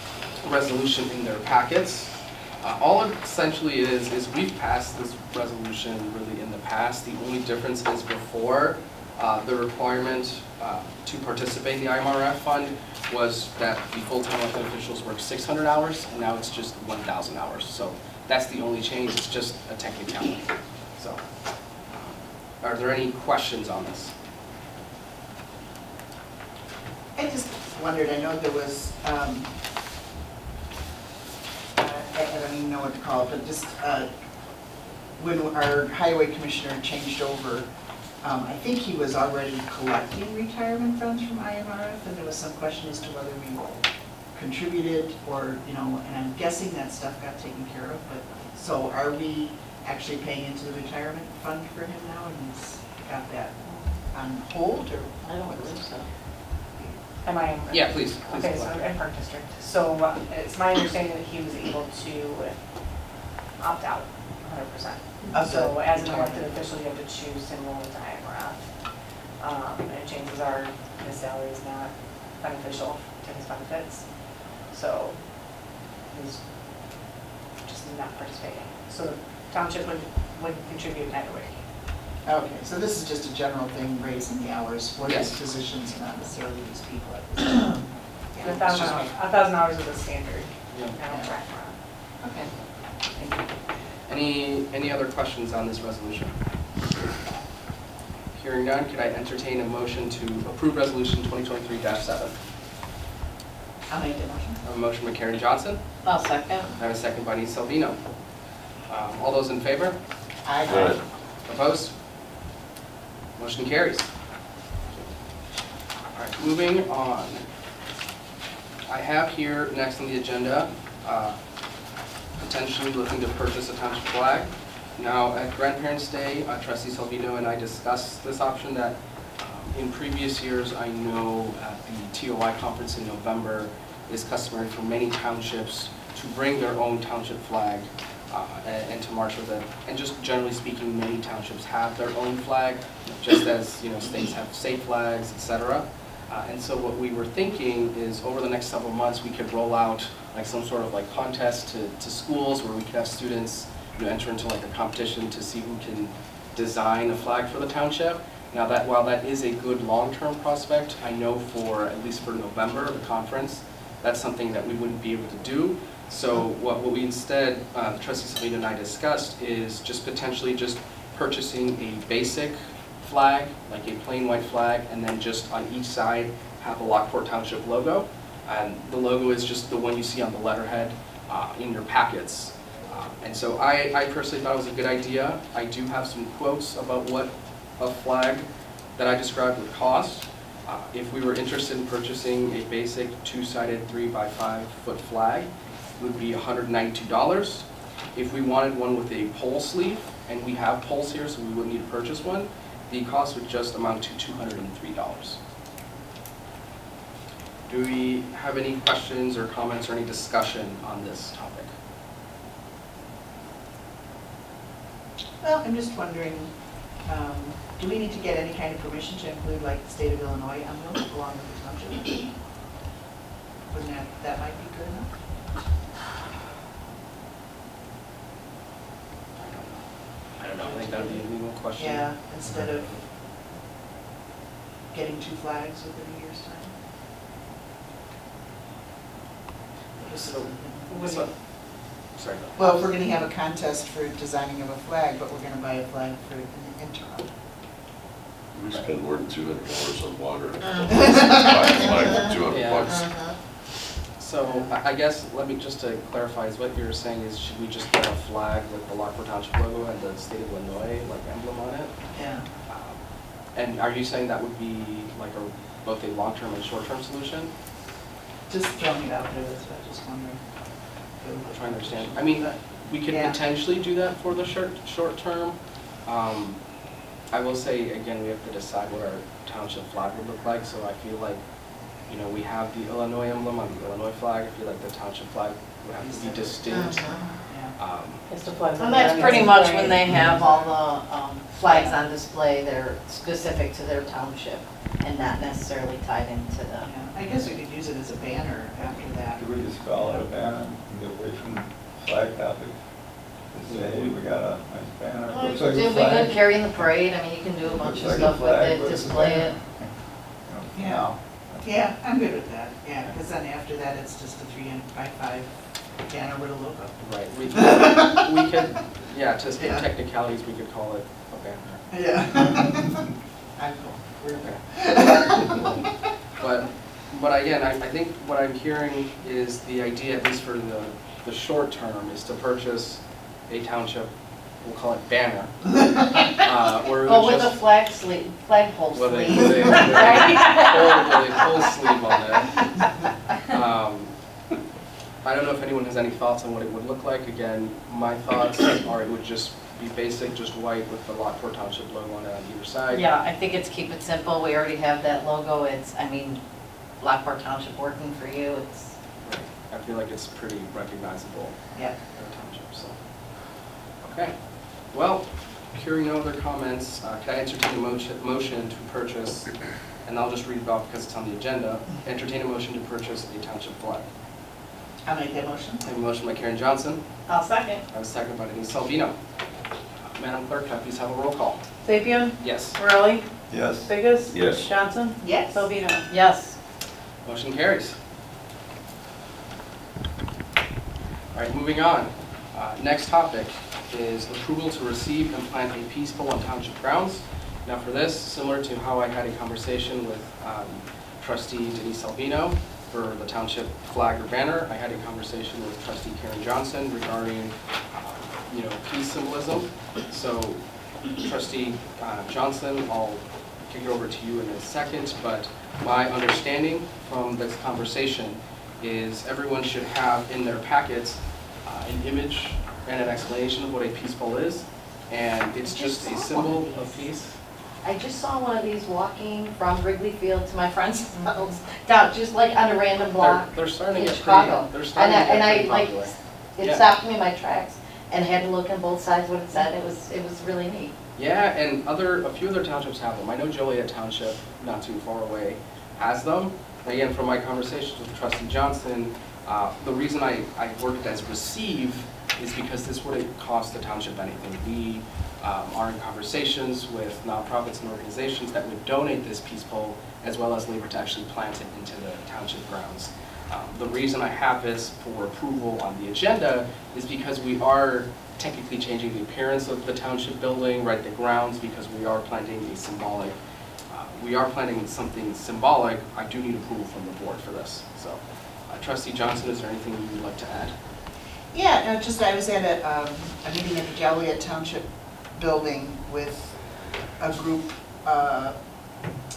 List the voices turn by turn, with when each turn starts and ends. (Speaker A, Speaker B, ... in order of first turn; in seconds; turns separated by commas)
Speaker A: 0.4-21.2, Speaker A: 21.9-24.1, Speaker B: 27.2-29.5, Speaker B: 31.8-34.1, Speaker B: 35.2-37.7, Speaker B: 38.2-43.8, Speaker B: 44.4-55.9, Speaker C: 55.2-56.1, Speaker D: 57.2-62.6, Speaker A: 57.7-58.9, Speaker D: 63.6-68.7, Speaker B: 65.3-66.5, Speaker D: 69.4-77.1, Speaker D: 77.6-81.6, Speaker B: 82.3-88.9, Speaker A: 85.0-85.3, Speaker D: 88.4-91.8, Speaker A: 90.7-91.0, Speaker B: 92.2-92.5, Speaker B: 93.2-93.5, Speaker A: 94.1-96.4, Speaker A: 98.3-102.3, Speaker B: 103.9-104.6, Speaker A: 104.6-105.8, Speaker C: 106.0-106.7, Speaker A: 106.8-108.0, Speaker A: 108.9-110.0, Speaker B: 110.5-111.0, Speaker E: 110.7-111.0, Speaker A: 111.5-111.9, Speaker A: 113.4-114.1, Speaker A: 116.1-117.4, Speaker A: 118.9-121.4, Speaker A: 122.4-188.5, Speaker A: 189.0-205.4, Speaker A: 207.7-211.7, Speaker B: 215.4-222.3, Speaker B: 223.7-225.1, Speaker A: 229.4-229.9, Speaker A: 230.4-232.1, Speaker B: 230.4-231.2, Speaker B: 231.8-233.1, Speaker B: 234.9-236.8, Speaker B: 240.0-241.3, Speaker A: 240.3-241.3, Speaker A: 242.2-242.9, Speaker B: 242.6-247.3, Speaker E: 248.5-253.1, Speaker B: 251.0-251.3, Speaker C: 251.8-252.3, Speaker A: 252.5-253.1, Speaker C: 252.9-253.3, Speaker A: 254.2-261.9, Speaker B: 254.4-254.8, Speaker B: 262.1-262.5, Speaker A: 262.7-263.0, Speaker A: 263.5-267.5, Speaker B: 268.5-270.5, Speaker B: 271.2-273.4, Speaker A: 271.5-276.6, Speaker A: 277.3-281.4, Speaker A: 282.1-287.1, Speaker B: 286.0-287.7, Speaker C: 286.7-287.3, Speaker A: 287.8-288.2, Speaker F: 288.3-290.0, Speaker C: 288.8-296.9, Speaker B: 289.2-290.8, Speaker B: 291.6-292.0, Speaker B: 296.8-300.3, Speaker G: 299.4-302.7, Speaker G: 303.4-306.5, Speaker C: 305.3-309.6, Speaker G: 307.6-309.9, Speaker G: 310.4-311.6, Speaker B: 311.6-316.9, Speaker A: 317.0-321.8, Speaker B: 317.5-318.5, Speaker B: 319.6-319.9, Speaker B: 321.9-325.8, Speaker A: 326.4-335.7, Speaker A: 336.4-337.6, Speaker C: 337.0-340.7, Speaker A: 338.9-342.6, Speaker F: 340.0-340.7, Speaker A: 343.5-344.1, Speaker A: 345.2-353.1, Speaker C: 352.9-356.4, Speaker C: 357.0-359.0, Speaker A: 359.2-363.0, Speaker A: 364.0-374.1, Speaker B: 375.1-375.9, Speaker A: 375.8-377.0, Speaker C: 377.3-377.8, Speaker A: 377.9-379.2, Speaker A: 380.1-381.6, Speaker F: 381.9-383.3, Speaker A: 382.4-382.8, Speaker G: 383.5-383.9, Speaker F: 383.9-386.1, Speaker E: 384.3-384.7, Speaker B: 385.2-385.7, Speaker C: 386.1-386.6, Speaker A: 387.2-388.0, Speaker A: 391.3-427.4, Speaker B: 425.7-427.0, Speaker C: 425.9-426.6, Speaker C: 427.8-440.9, Speaker A: 433.2-436.8, Speaker A: 441.2-473.4, Speaker A: 473.9-480.8, Speaker B: 481.5-488.6